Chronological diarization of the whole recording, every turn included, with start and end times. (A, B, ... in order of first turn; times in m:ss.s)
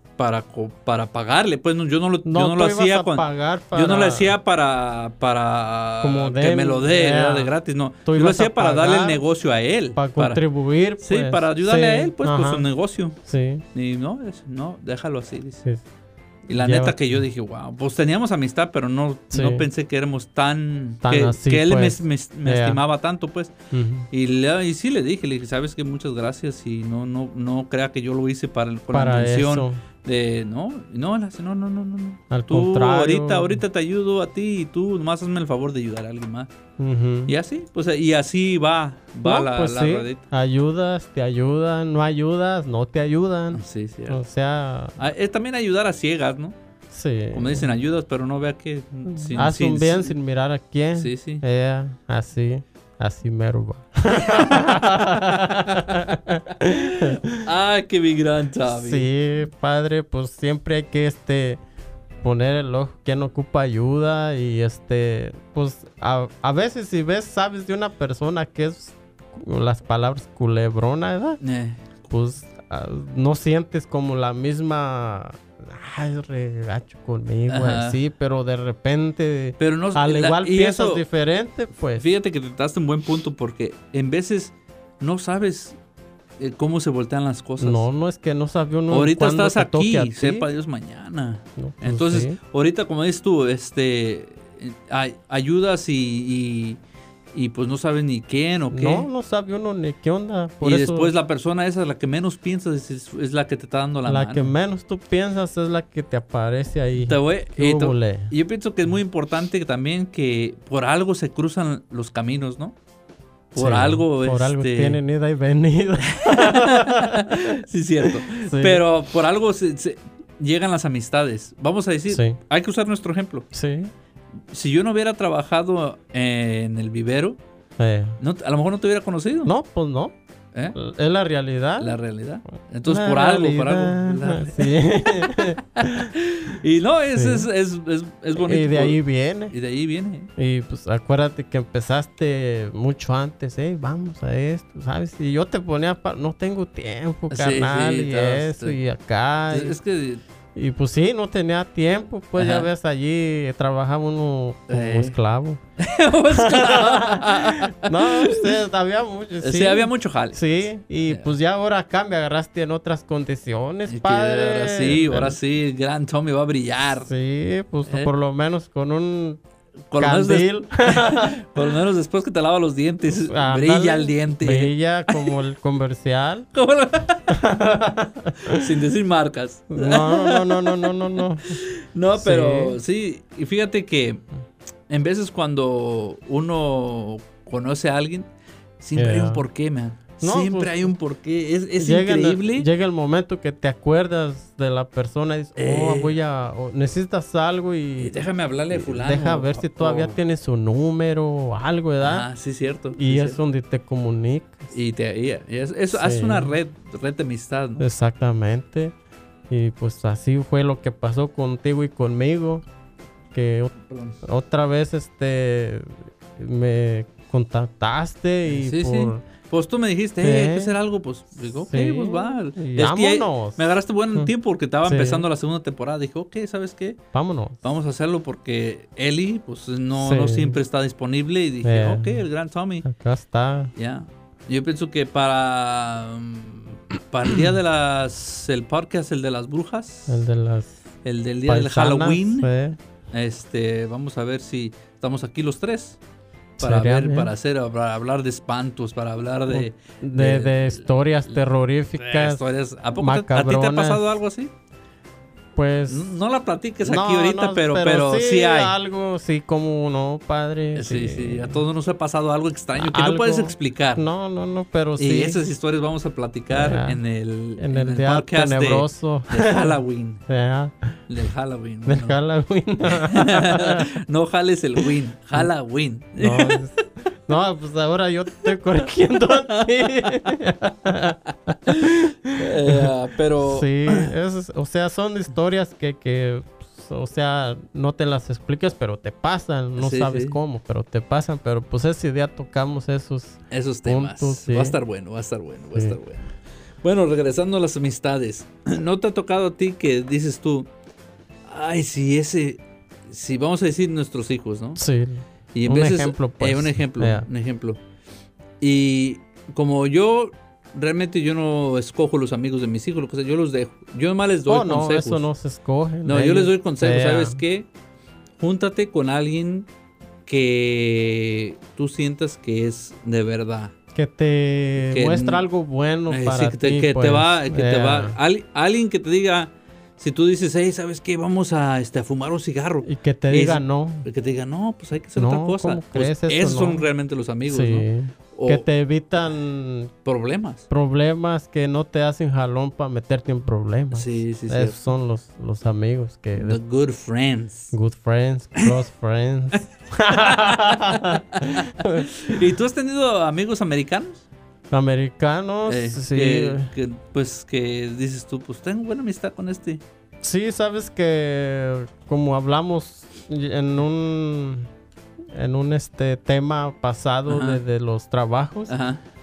0:00.2-0:10.4 A
0:02.2-0:04.4 B
0:06.0-0:07.5 B
0:08.0-0:09.2 B
0:10.0-0:12.7 B
0:11.0-0:13.2 A
0:13.2-0:13.6 B
0:13.7-0:15.6 A
0:16.5-0:17.2 B
0:16.5-0:23.5 A
0:19.3-0:19.7 B
0:21.0-0:22.8 B
0:23.7-0:24.1 B
0:24.1-0:36.5 A
0:28.9-0:29.8 B
0:32.3-0:33.6 B
0:36.8-0:37.3 B
0:37.3-0:40.2 A
0:39.2-0:45.0 B
0:43.5-0:44.2 A
0:45.0-0:46.6 A
0:46.9-0:47.7 B
0:47.3-0:50.2 A
0:49.1-0:57.5 B
0:51.0-0:51.4 A
0:54.2-0:56.0 A
0:56.7-0:59.1 A
0:58.7-1:01.6 B
1:02.2-1:11.4 B
1:11.4-1:11.9 A
1:12.1-1:22.1 B
1:17.5-1:18.0 A
1:19.6-1:21.0 A
1:22.0-1:25.8 A
1:26.4-1:27.9 A
1:27.6-1:30.5 B
1:28.9-1:36.8 A
1:31.6-1:32.4 B
1:37.3-1:39.1 A
1:38.7-1:41.1 B
1:40.6-1:44.5 A
1:44.1-1:48.3 B
1:47.0-1:52.8 A
1:53.5-1:55.0 A
1:53.6-1:58.8 B
1:56.1-2:03.5 A
2:02.1-2:02.4 B
2:03.5-2:03.9 B
2:04.5-2:07.4 A
2:07.8-2:08.2 B
2:08.2-2:09.5 A
2:09.4-2:10.2 B
2:10.7-2:12.0 B
2:11.8-2:19.0 A
2:12.8-2:16.1 B
2:17.2-2:17.5 B
2:18.4-2:19.6 B
2:19.5-2:20.3 A
2:20.4-2:29.8 B
2:27.3-2:28.8 A
2:29.5-2:30.2 A
2:30.6-2:35.6 B
2:32.4-2:32.7 A
2:34.7-2:35.2 A
2:35.8-2:38.6 A
2:36.3-2:45.4 B
2:39.4-2:41.3 A
2:43.9-2:47.1 A
2:47.0-2:49.4 B
2:47.9-2:48.1 A
2:49.9-2:55.4 A
2:50.0-2:51.5 B
2:53.1-2:56.5 B
2:56.5-2:57.3 A
2:57.3-2:58.7 B
2:58.5-3:04.2 A
2:59.7-3:01.6 B
3:02.2-3:02.8 B
3:04.9-3:08.3 A
3:08.8-3:12.7 A
3:09.0-3:09.4 B
3:10.2-3:10.9 B
3:11.8-3:18.2 B
3:15.6-3:16.2 A
3:18.0-3:20.2 A
3:18.7-3:22.3 B
3:22.0-3:23.4 A
3:23.0-3:24.7 B
3:24.7-3:27.8 A
3:25.9-3:26.5 B
3:27.8-3:29.0 B
3:29.5-3:32.6 B
3:33.3-3:39.2 B
3:33.8-3:34.2 A
3:38.5-3:47.0 A
3:40.2-3:40.7 B
3:41.6-3:44.3 B
3:44.8-3:45.2 B
3:47.1-3:47.6 B
3:47.6-3:52.8 A
3:50.0-3:50.6 B
3:51.6-3:52.2 B
3:52.8-3:53.7 B
3:53.8-4:00.2 A
4:00.1-4:00.8 B
4:01.0-4:02.5 A
4:01.5-4:02.8 B
4:03.1-4:06.0 A
4:06.6-4:07.3 B
4:06.6-4:10.9 A
4:09.5-4:12.4 B
4:12.0-4:14.5 A
4:13.0-4:14.1 B
4:15.6-4:16.2 B
4:15.9-4:18.8 A
4:16.8-4:21.6 B
4:20.8-4:24.1 A
4:22.8-4:25.4 B
4:25.0-4:30.2 A
4:26.5-4:27.0 B
4:27.6-4:31.0 B
4:31.1-4:32.2 A
4:31.8-4:33.9 B
4:32.8-4:36.6 A
4:34.8-4:35.5 B
4:36.2-4:54.8 B
4:39.3-4:40.3 A
4:41.7-4:44.1 A
4:49.8-4:50.4 A
4:53.5-4:56.3 A
4:56.8-5:00.7 A
5:01.5-5:04.8 A
5:04.8-5:07.3 B
5:05.5-5:07.8 A
5:08.6-5:15.2 A
5:14.5-5:17.4 B
5:16.0-5:17.7 A
5:18.4-5:19.7 A
5:20.3-5:23.7 A
5:23.9-5:28.2 B
5:24.8-5:25.4 A
5:26.1-5:38.7 A
5:32.8-5:34.1 B
5:35.2-5:36.8 B
5:37.5-5:39.9 B
5:40.0-5:40.6 A
5:40.7-5:46.6 B
5:43.9-5:44.8 A
5:46.4-5:47.7 A
5:47.7-5:52.4 B
5:50.1-5:54.2 A
5:54.7-5:56.7 B
5:55.7-5:59.8 A
6:00.2-6:04.7 B
6:05.3-6:08.8 B
6:07.3-6:07.6 A
6:08.7-6:09.0 A